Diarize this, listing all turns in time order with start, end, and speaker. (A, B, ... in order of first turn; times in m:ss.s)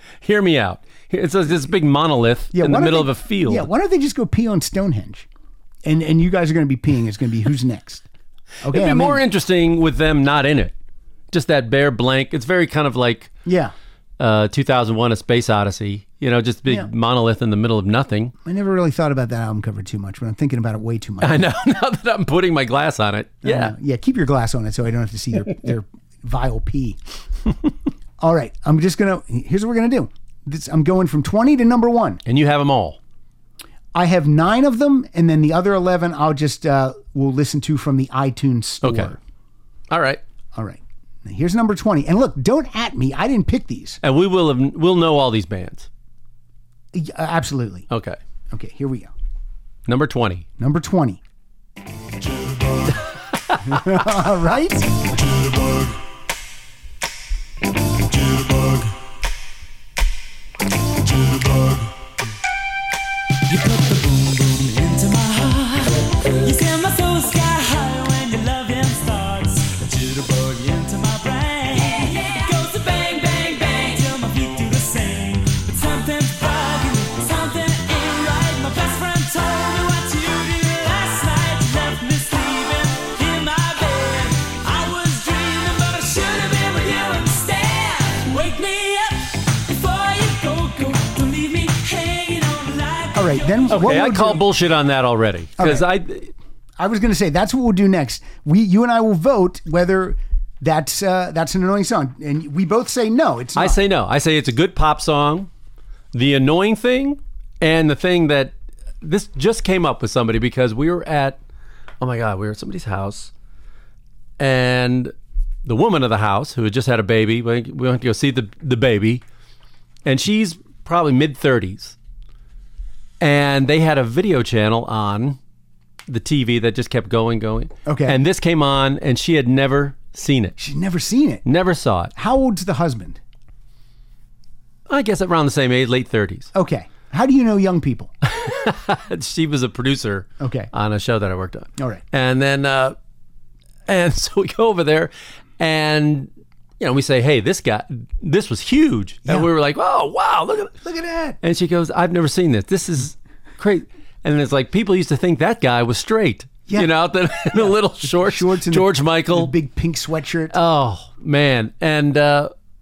0:00.2-0:03.7 A
0:02.5-0:05.3 B
0:05.8-0:08.0 B
0:08.6-0:09.2 B
0:08.7-0:10.8 A
0:11.3-0:13.3 A
0:13.5-0:13.7 B
0:14.2-0:18.3 A
0:18.4-0:21.5 B
0:21.2-0:23.8 A
0:23.4-0:27.0 B
0:28.2-0:32.2 B
0:32.3-0:33.0 A
0:34.0-0:39.2 B
0:38.8-0:39.2 A
0:39.9-0:40.2 A
0:40.6-0:44.0 B
0:44.0-0:45.9 A
0:46.9-0:47.9 B
0:47.9-0:48.2 A
0:48.5-0:49.1 B
0:49.9-0:50.5 A
0:50.6-0:51.2 B
0:53.6-0:54.9 B
1:03.5-1:34.0 C
1:33.2-1:34.4 B
1:33.7-1:36.3 A
1:35.6-1:35.9 B
1:36.8-1:43.8 B
1:43.6-1:45.5 A
1:46.1-1:51.4 A
1:52.0-1:53.3 A
1:54.4-1:59.2 A
2:00.0-2:02.0 A
2:03.2-2:05.4 A
2:06.1-2:10.6 A
2:07.9-2:08.2 B
2:10.6-2:11.4 B
2:11.4-2:12.1 A
2:12.2-2:13.2 B
2:14.9-2:16.5 A
2:16.5-2:18.1 B
2:18.3-2:23.0 A
2:20.4-2:20.7 B
2:21.8-2:22.0 B
2:23.9-2:30.7 A
2:30.8-2:31.4 B
2:31.4-2:39.5 A
2:36.7-2:40.6 B
2:40.5-2:42.5 A